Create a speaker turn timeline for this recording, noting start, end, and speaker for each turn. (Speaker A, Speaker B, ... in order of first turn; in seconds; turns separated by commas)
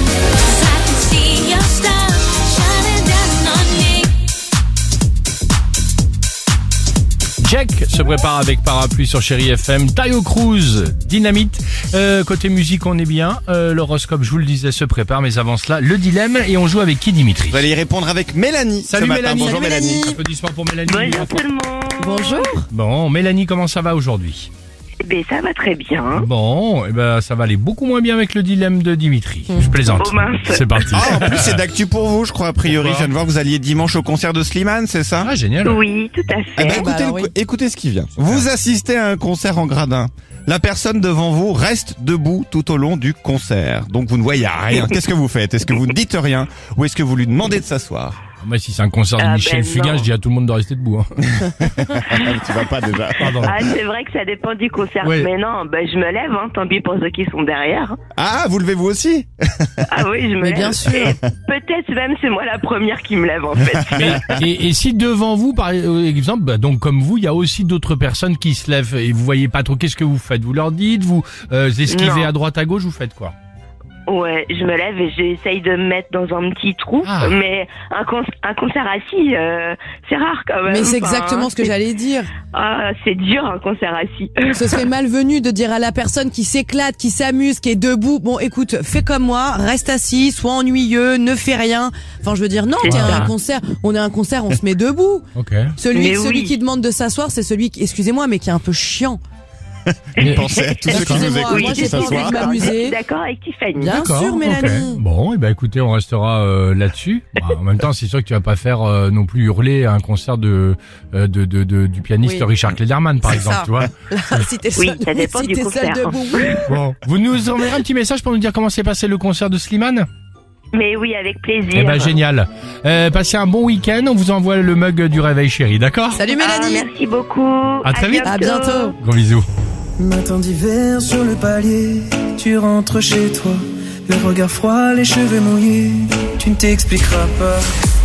Speaker A: 0.5-4.1, Speaker B: 7.4-17.7, Speaker C: 17.5-20.1, Speaker B: 18.9-21.4, Speaker D: 19.4-20.2, Speaker E: 20.9-22.5, Speaker D: 22.0-22.6, Speaker B: 22.7-24.5, Speaker E: 25.0-26.3, Speaker B: 26.1-31.6, Speaker E: 30.0-31.0, Speaker C: 30.9-35.3, Speaker B: 32.6-33.1, Speaker B: 35.2-35.8, Speaker E: 35.6-36.9, Speaker C: 36.6-48.2, Speaker D: 36.7-37.3, Speaker B: 38.2-38.5, Speaker B: 48.4-51.2, Speaker E: 49.2-50.1, Speaker C: 51.4-53.7, Speaker E: 52.1-52.4, Speaker B: 53.2-53.6, Speaker E: 53.4-58.0, Speaker B: 55.0-55.3, Speaker C: 58.1-59.9, Speaker E: 59.9-64.4, Speaker D: 60.4-61.1, Speaker B: 64.0-73.3, Speaker C: 64.0-64.2, Speaker E: 71.9-72.3, Speaker E: 74.1-81.7, Speaker B: 77.0-77.4, Speaker D: 80.7-82.3, Speaker E: 82.5-84.6, Speaker D: 84.5-95.2, Speaker E: 92.8-93.3, Speaker B: 92.8-93.3, Speaker B: 95.4-95.7, Speaker D: 95.8-99.2, Speaker E: 95.9-96.5, Speaker C: 100.2-102.5, Speaker E: 100.2-103.9, Speaker D: 100.9-103.0, Speaker B: 100.9-101.3, Speaker D: 103.8-105.0, Speaker B: 103.9-114.4, Speaker D: 112.2-112.5, Speaker D: 113.2-116.7, Speaker E: 114.8-116.6, Speaker B: 116.7-120.1, Speaker E: 120.7-122.2, Speaker B: 121.7-126.2, Speaker D: 126.2-126.9, Speaker E: 126.4-129.0, Speaker B: 127.8-128.3, Speaker D: 128.2-129.0, Speaker B: 129.0-129.5, Speaker F: 130.0-137.7